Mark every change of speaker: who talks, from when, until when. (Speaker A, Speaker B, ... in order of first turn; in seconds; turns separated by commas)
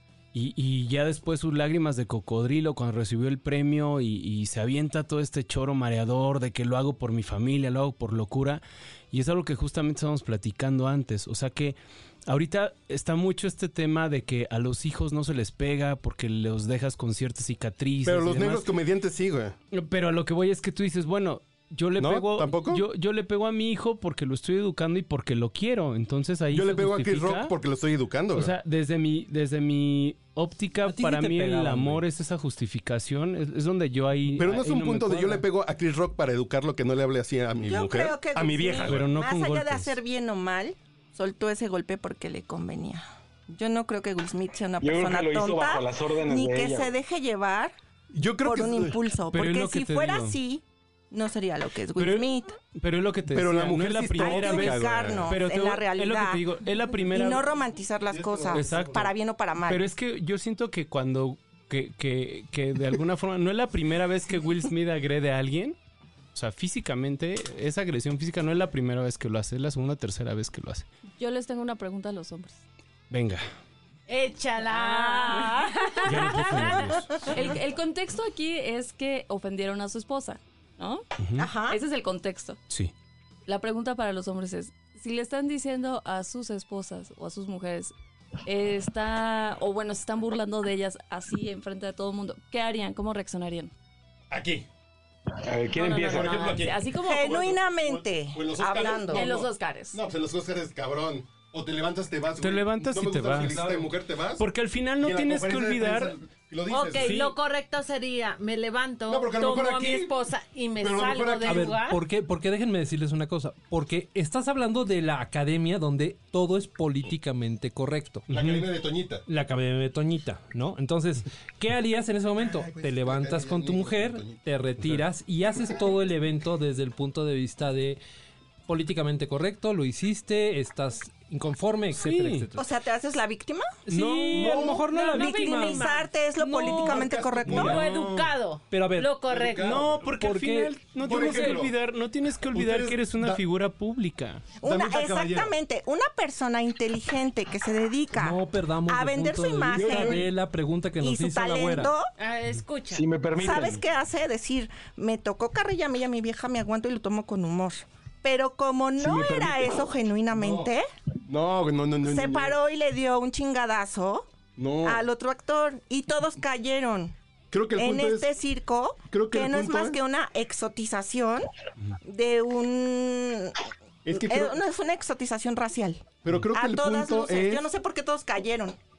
Speaker A: 0.3-18.7, Speaker B: 18.0-19.5, Speaker A: 19.7-27.5, Speaker B: 22.0-22.8, Speaker B: 26.5-28.5, Speaker A: 28.3-35.4, Speaker C: 30.9-32.0, Speaker B: 34.3-39.0, Speaker D: 37.6-47.7, Speaker A: 38.8-40.0, Speaker E: 44.8-46.9, Speaker B: 48.1-49.0, Speaker D: 48.4-52.5, Speaker A: 49.3-50.4, Speaker A: 52.0-57.4, Speaker B: 53.3-55.4, Speaker D: 54.2-56.5, Speaker D: 57.0-59.8, Speaker B: 58.1-59.1, Speaker A: 58.5-59.1, Speaker A: 59.7-65.8, Speaker A: 66.3-70.9, Speaker F: 71.2-72.6, Speaker A: 73.1-73.4, Speaker G: 74.1-77.0, Speaker F: 74.7-76.4, Speaker A: 76.0-77.1, Speaker F: 77.3-81.0, Speaker A: 81.2-81.5, Speaker D: 81.4-81.8, Speaker F: 81.7-82.6, Speaker F: 83.5-87.9, Speaker F: 88.4-93.7, Speaker B: 94.3-94.7, Speaker E: 95.4-96.6, Speaker F: 95.7-97.6, Speaker B: 96.0-97.0, Speaker D: 96.9-99.3, Speaker B: 97.6-104.4, Speaker F: 99.1-100.0, Speaker A: 102.4-103.6, Speaker C: 103.3-103.9, Speaker A: 104.4-106.1, Speaker B: 105.0-107.2, Speaker G: 106.7-112.0, Speaker A: 107.0-107.3, Speaker B: 109.1-110.1, Speaker B: 110.8-111.8, Speaker C: 111.4-118.4, Speaker B: 118.3-119.2, Speaker C: 119.3-128.0, Speaker B: 122.4-124.4, Speaker C: 128.7-132.7, Speaker A: 131.9-132.4, Speaker D: 132.6-133.7, Speaker C: 133.9-135.9, Speaker A: 133.9-134.7, Speaker G: 134.4-136.1, Speaker B: 134.4-134.7, Speaker D: 135.1-137.8, Speaker B: 136.8-138.3, Speaker C: 137.4-137.8, Speaker G: 137.6-139.7, Speaker C: 138.7-139.2, Speaker B: 139.2-140.2, Speaker A: 139.6-144.5, Speaker C: 140.1-141.6, Speaker B: 141.0-141.8, Speaker B: 142.5-143.4, Speaker D: 144.6-150.3, Speaker B: 144.6-145.5, Speaker C: 148.1-151.9, Speaker B: 149.7-150.3, Speaker D: 151.0-152.1, Speaker G: 152.2-153.0, Speaker E: 152.9-153.8, Speaker D: 153.3-160.9, Speaker E: 159.0-159.7, Speaker B: 160.3-160.7, Speaker B: 161.3-162.6, Speaker D: 162.0-164.3, Speaker B: 164.6-165.0, Speaker D: 164.8-167.1, Speaker B: 167.5-168.3, Speaker D: 167.8-171.5, Speaker B: 169.1-170.0, Speaker D: 172.0-173.6, Speaker B: 174.1-174.6, Speaker D: 174.1-178.8, Speaker B: 176.2-177.6